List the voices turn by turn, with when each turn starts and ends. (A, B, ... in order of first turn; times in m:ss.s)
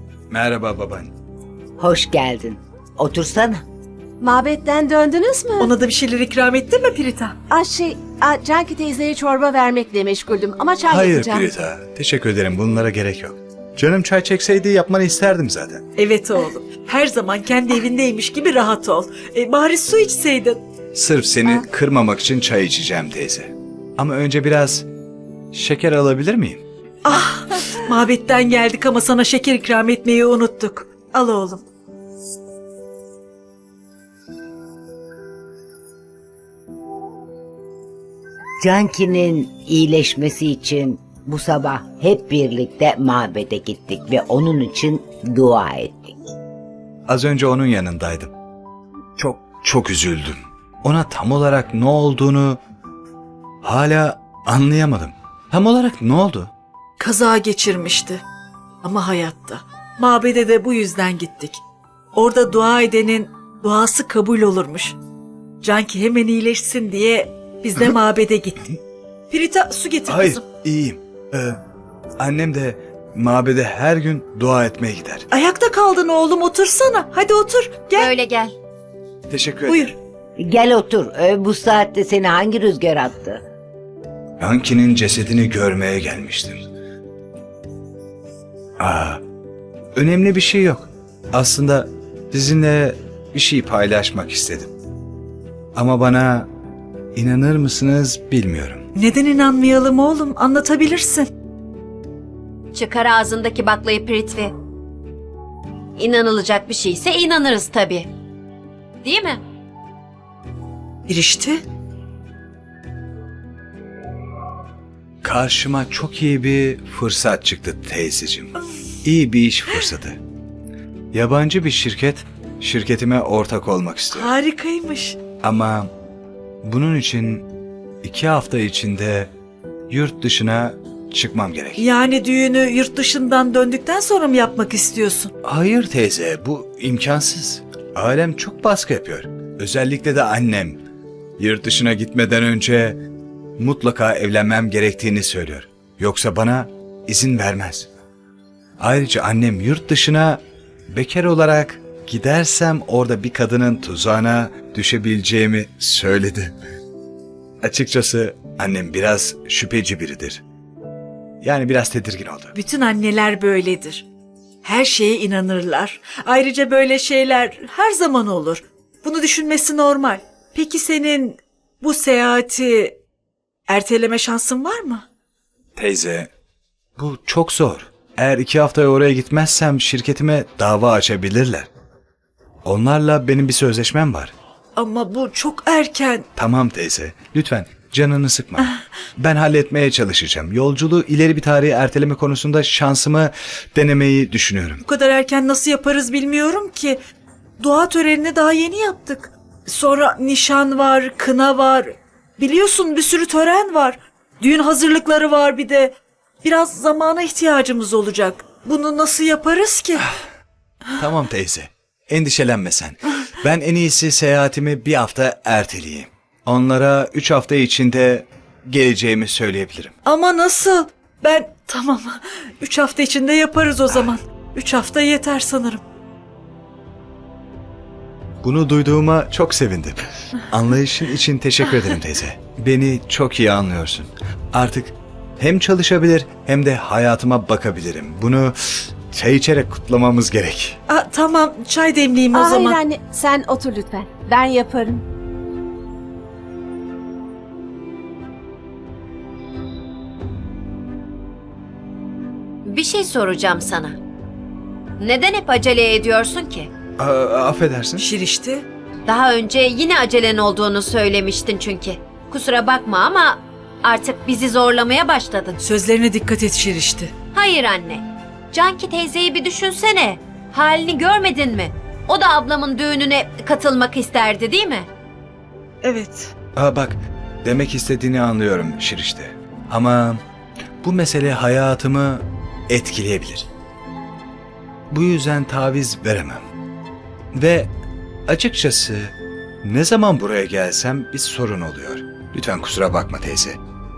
0:00.3-0:01.1 A
0:01.8-0:03.6 B
0:04.2-0:05.7 C
0:05.6-0:07.3 D
0:07.5-0:11.5 C
0:10.9-0:15.8 A
0:16.0-0:20.6 D
0:20.9-0:24.9 A
0:25.5-0:26.6 A
0:27.0-0:31.6 D
0:38.6-0:46.1 B
0:47.1-0:48.3 A
0:49.2-0:52.6 A
0:53.6-0:56.5 A
0:57.0-0:58.2 D
0:58.8-1:01.6 D
1:02.1-1:04.9 D
1:05.6-1:08.7 D
1:09.3-1:10.4 D
1:10.1-1:11.6 A
1:12.2-1:15.2 A
1:15.3-1:18.1 D
1:18.0-1:18.6 E
1:19.3-1:19.9 A
1:19.7-1:19.9 D
1:20.4-1:23.4 B
1:24.4-1:26.6 A
1:28.8-1:29.2 A
1:29.9-1:34.7 A
1:35.8-1:36.5 A
1:37.2-1:38.8 A
1:38.9-1:41.3 D
1:42.7-1:44.5 E
1:46.0-1:48.1 E
1:49.0-1:49.4 E
1:51.1-1:51.6 D
1:55.2-2:00.2 A
2:01.1-2:04.3 A
2:04.1-2:05.2 D
2:05.4-2:05.9 A
2:06.6-2:07.4 A
2:08.0-2:09.3 A
2:09.9-2:11.8 A
2:11.8-2:15.3 D
2:15.4-2:20.8 A
2:21.4-2:23.0 A
2:23.6-2:27.9 A
2:28.8-2:36.5 A
2:37.6-2:40.4 A
2:41.4-2:42.5 A
2:42.5-2:44.0 D
2:44.6-2:53.0 D
2:53.7-2:55.0 D
2:55.8-2:56.3 A
2:57.0-3:01.7 A
3:02.6-3:04.3 A
3:04.8-3:06.2 D
3:06.4-3:14.8 A
3:14.8-3:17.0 D
3:17.6-3:30.1 D
3:31.0-3:39.9 A
3:40.0-3:45.8 D
3:48.4-4:00.8 A
4:00.9-4:02.8 D
4:02.3-4:05.0 C
4:12.6-4:14.0 E
4:15.0-4:16.7 E
4:17.0-4:18.0 A
4:18.0-4:18.6 D
4:19.0-4:25.6 E
4:25.6-4:27.1 D
4:27.3-4:34.9 E
4:35.8-4:36.3 D
4:36.6-4:40.2 A
4:40.8-4:43.5 A
4:44.9-4:46.4 A
4:47.3-4:47.7 A
4:48.3-4:53.6 A